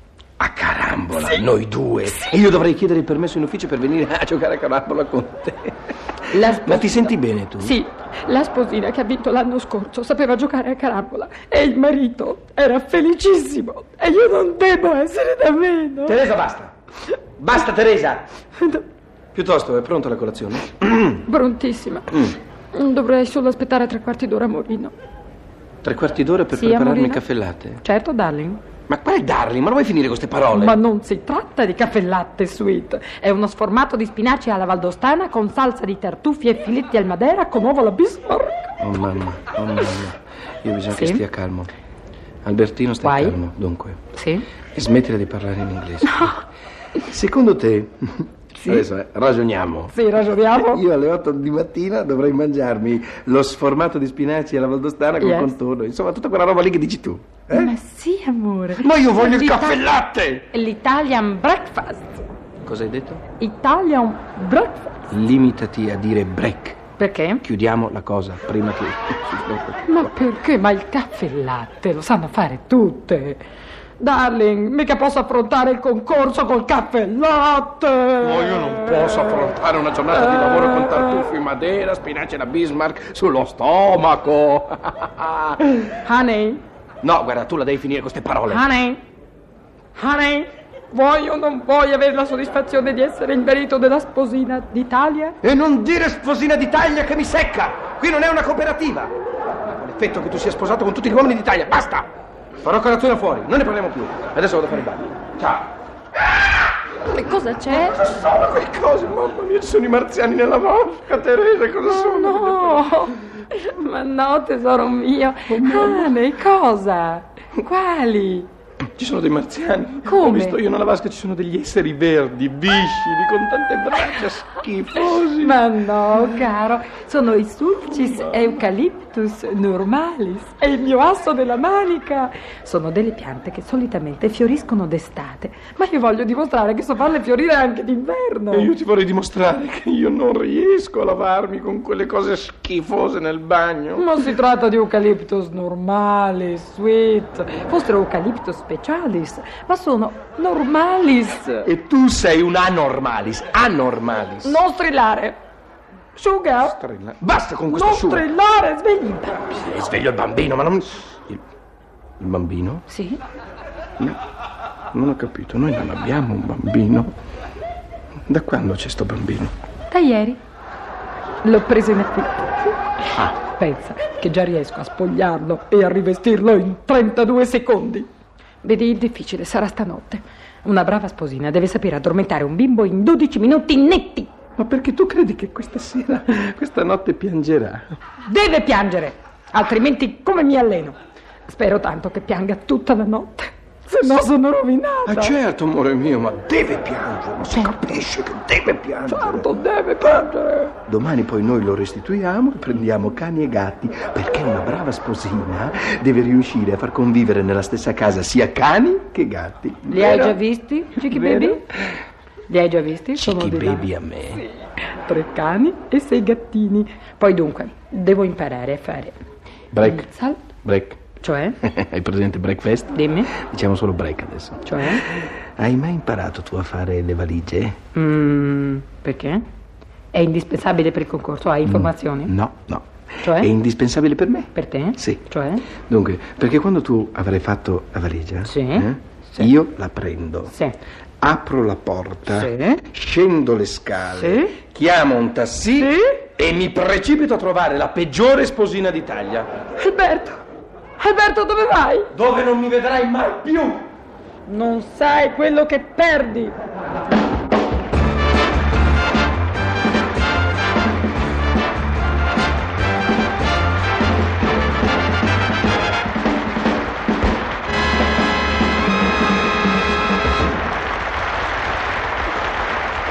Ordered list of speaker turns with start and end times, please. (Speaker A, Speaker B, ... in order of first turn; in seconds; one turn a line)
Speaker A: 0.4-5.8
Speaker A: 6.3-7.8
Speaker B: 6.3-16.2
Speaker A: 16.1-16.7
Speaker A: 17.4-18.2
Speaker A: 19.3-21.2
Speaker B: 21.2-24.9
Speaker A: 25.8-27.8
Speaker B: 26.5-27.2
Speaker B: 27.8-28.6
Speaker A: 28.9-30.8
Speaker B: 30.5-38.8
Speaker A: 38.8-41.7
Speaker B: 40.9-41.2
Speaker A: 42.4-44.0
Speaker B: 43.0-43.4
Speaker B: 44.1-44.5
Speaker A: 44.7-46.4
Speaker B: 46.0-46.4
Speaker A: 47.0-57.7
Speaker B: 48.5-48.9
Speaker B: 49.9-50.8
Speaker B: 55.2-55.5
Speaker B: 57.5-59.9
Speaker A: 58.8-60.5
Speaker B: 60.5-62.2
Speaker A: 62.6-63.2
Speaker B: 63.4-65.0
Speaker A: 65.1-66.8
Speaker B: 67.0-67.4
Speaker A: 67.4-70.1
Speaker B: 69.8-73.4
Speaker B: 74.0-79.5
Speaker A: 78.2-85.9
Speaker B: 80.1-81.3
Speaker B: 86.0-86.6
Speaker A: 87.0-88.6
Speaker B: 88.5-89.0
Speaker B: 89.9-95.4
Speaker A: 95.4-99.1
Speaker A: 99.7-102.1
Speaker A: 102.6-106.7
Speaker B: 107.0-108.0
Speaker A: 107.7-112.9
Speaker B: 111.9-118.5
Speaker A: 115.5-116.2
Speaker A: 119.0-125.6
Speaker B: 120.0-120.6
Speaker B: 125.1-138.7
Speaker A: 127.9-128.6
Speaker A: 138.5-144.2
Speaker B: 144.0-151.7
Speaker A: 151.6-154.6
Speaker B: 154.4-155.4
Speaker B: 156.2-156.8
Speaker A: 156.6-158.3
Speaker B: 157.7-159.6
Speaker A: 159.5-161.4
Speaker A: 162.2-162.8
Speaker B: 162.9-163.2
Speaker A: 164.9-167.1
Speaker A: 168.3-169.5
Speaker B: 169.9-170.4
Speaker B: 171.4-178.1
Speaker B: 178.6-184.3
Speaker A: 184.6-187.9
Speaker B: 188.2-191.0
Speaker B: 191.5-195.3
Speaker A: 195.1-199.5
Speaker B: 199.1-200.7
Speaker A: 200.8-210.4
Speaker B: 209.9-211.7
Speaker A: 211.0-211.8
Speaker B: 212.5-213.9
Speaker A: 213.2-214.4
Speaker B: 214.4-219.2
Speaker A: 219.7-221.0
Speaker B: 219.8-220.5
Speaker B: 221.2-221.6
Speaker A: 221.6-227.8
Speaker B: 222.9-223.3
Speaker B: 224.6-225.2
Speaker B: 227.9-229.4
Speaker B: 230.1-232.3
Speaker A: 231.7-235.2
Speaker B: 233.2-233.5
Speaker B: 234.5-235.7
Speaker A: 235.8-240.5
Speaker B: 238.5-239.5
Speaker B: 240.5-240.8
Speaker A: 241.2-249.5
Speaker B: 242.3-242.8
Speaker B: 244.1-244.6
Speaker B: 245.8-246.2
Speaker B: 249.8-250.4
Speaker B: 251.0-252.1
Speaker A: 252.1-253.9
Speaker B: 254.5-256.6